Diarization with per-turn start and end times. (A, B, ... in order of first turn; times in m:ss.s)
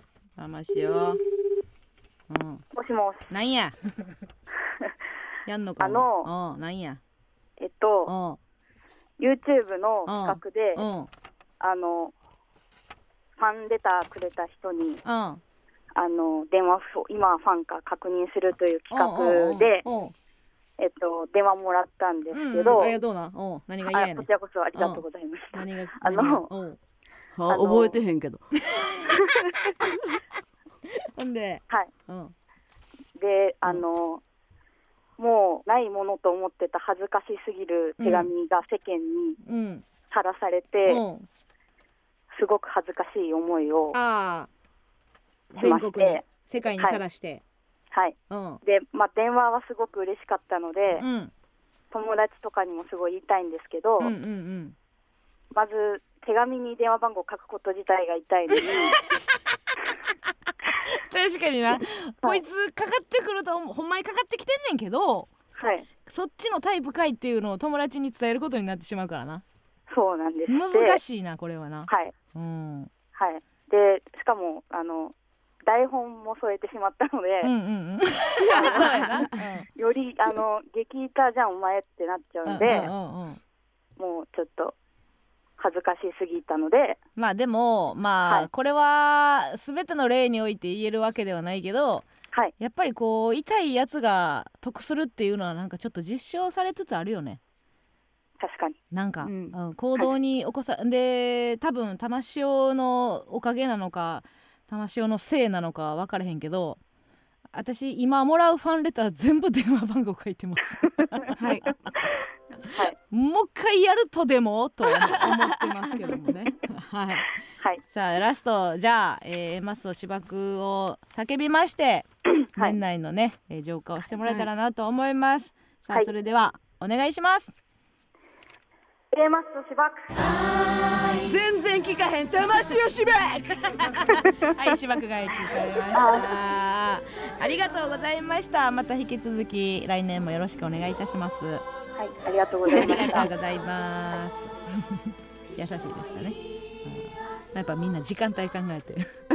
0:00.4-0:01.2 A
0:02.3-0:02.6 A
0:02.7-0:03.3 B
0:03.3-0:03.8 A
0:05.5-0:07.0 A
0:05.8-0:06.3 B
0:07.6-0:08.1 B
0:08.1-0:08.4 A
0:09.2-0:10.8 B
0:10.1-0:11.1 A
0:11.6-0:12.1 B
0:13.4-0:15.0 B
0:15.0-0:15.4 A
0:16.0-0:19.9 B
0:18.9-0:20.1 A
0:20.8-0:23.0 B
0:22.3-0:26.8 A
0:23.9-0:26.5 B
0:27.4-0:28.4 C
0:27.5-0:28.0 B
0:28.6-0:29.0 A
0:29.1-0:29.5 B
0:31.2-0:32.3 A
0:33.2-0:34.2 B
0:35.2-0:39.4 B
0:38.0-0:38.3 A
0:39.5-0:39.8 A
0:40.1-0:41.0 B
0:40.9-0:41.3 A
0:42.3-0:44.0 B
0:43.9-0:44.5 A
0:45.5-0:47.4 A
0:45.6-0:46.3 B
0:47.9-0:51.0 B
0:48.3-0:48.6 A
0:51.0-0:51.3 A
0:51.9-0:54.1 B
0:54.0-0:54.8 A
0:55.5-0:59.0 B
0:58.6-0:59.6 A
1:01.0-1:05.3 A
1:05.6-1:05.9 B
1:06.1-1:09.4 A
1:09.9-1:11.0 B
1:10.5-1:12.9 A
1:11.9-1:12.1 B
1:13.2-1:17.5 B
1:17.4-1:19.7 A
1:18.4-1:19.4 C
1:18.6-1:18.8 B
1:19.8-1:22.9 B
1:22.5-1:23.4 A
1:24.0-1:24.8 B
1:25.6-1:27.0 B
1:27.2-1:32.1 A
1:32.6-1:37.4 A
1:38.4-1:38.8 B
1:38.9-1:46.8 A
1:39.2-1:39.6 C
1:47.5-1:51.4 A
1:51.4-1:51.8 C
1:53.1-1:57.4 A
1:57.9-2:07.5 A
2:09.1-2:10.2 B
2:11.2-2:14.1 C
2:13.8-2:21.6 A
2:22.0-2:23.3 B
2:22.7-2:25.0 A
2:25.6-2:29.1 A